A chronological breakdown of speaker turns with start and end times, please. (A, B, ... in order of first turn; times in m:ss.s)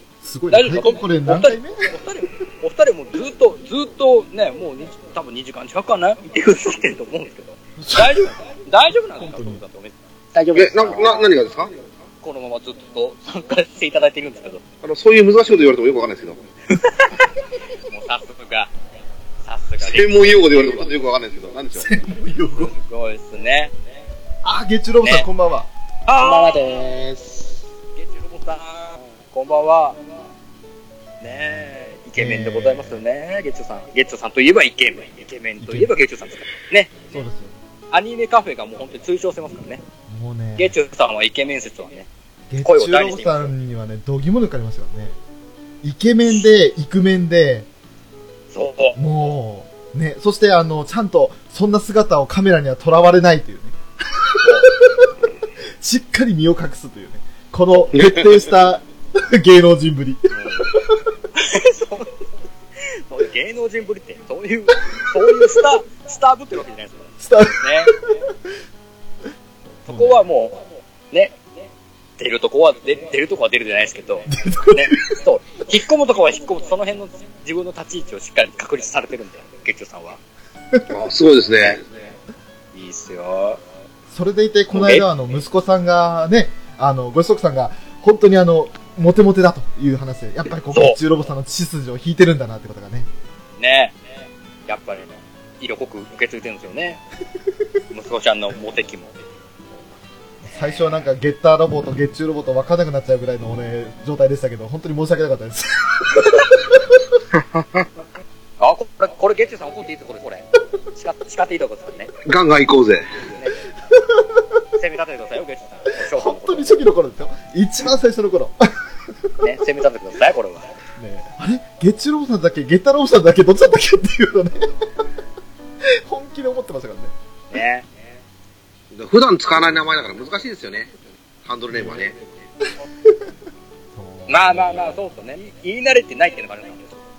0:00.2-0:01.9 A
0:00.5-0:09.9 B
0:07.8-0:08.3 A
0:09.2-0:09.6 A
0:10.3-0:11.3 C
0:10.5-0:11.7 D
0:12.2-0:14.6 B
0:14.8-0:16.4 D
0:16.7-0:17.3 B
0:17.9-0:18.7 B
0:19.4-0:20.9 B
0:19.8-0:21.9 D
0:21.8-0:22.7 A
0:22.6-0:23.7 B
0:24.4-0:25.7 A
0:26.1-0:26.7 B
0:26.2-0:27.5 C
0:28.0-0:30.0 B
0:31.2-0:36.9 B
0:32.2-0:33.0 A
0:35.6-0:35.9 A
0:37.1-0:37.5 A
0:37.9-0:39.8 B
0:40.1-0:40.7 A
0:40.6-0:42.1 B
0:42.5-0:45.2 A
0:42.6-0:43.5 B
0:45.8-0:47.7 A
0:48.5-0:49.0 B
0:49.0-0:55.1 A
0:54.4-0:54.7 B
0:55.8-1:01.0 A
0:57.9-0:58.3 D
1:00.3-1:00.7 B
1:01.3-1:02.1 B
1:02.8-1:07.9 B
1:07.2-1:08.1 A
1:09.8-1:10.2 A
1:09.9-1:11.3 B
1:12.2-1:20.2 B
1:14.3-1:15.0 A
1:20.9-1:21.8 D
1:22.7-1:23.6 B
1:24.1-1:33.1 A
1:24.7-1:25.1 B
1:30.7-1:31.0 B
1:33.6-1:34.0 B
1:34.7-1:37.0 B
1:37.9-1:39.1 B
1:40.4-1:46.9 A
1:48.6-1:52.1 B
1:52.2-1:53.0 D
1:53.3-1:53.6 B
1:53.9-1:54.4 A
1:54.8-1:56.8 B
1:56.0-1:58.8 A
1:59.4-2:00.7 B
2:01.0-2:04.7 A
2:05.8-2:07.1 A
2:07.5-2:07.9 B
2:08.9-2:10.9 D
2:11.4-2:12.2 D
2:11.7-2:12.1 A
2:13.9-2:15.0 A
2:14.3-2:17.0 B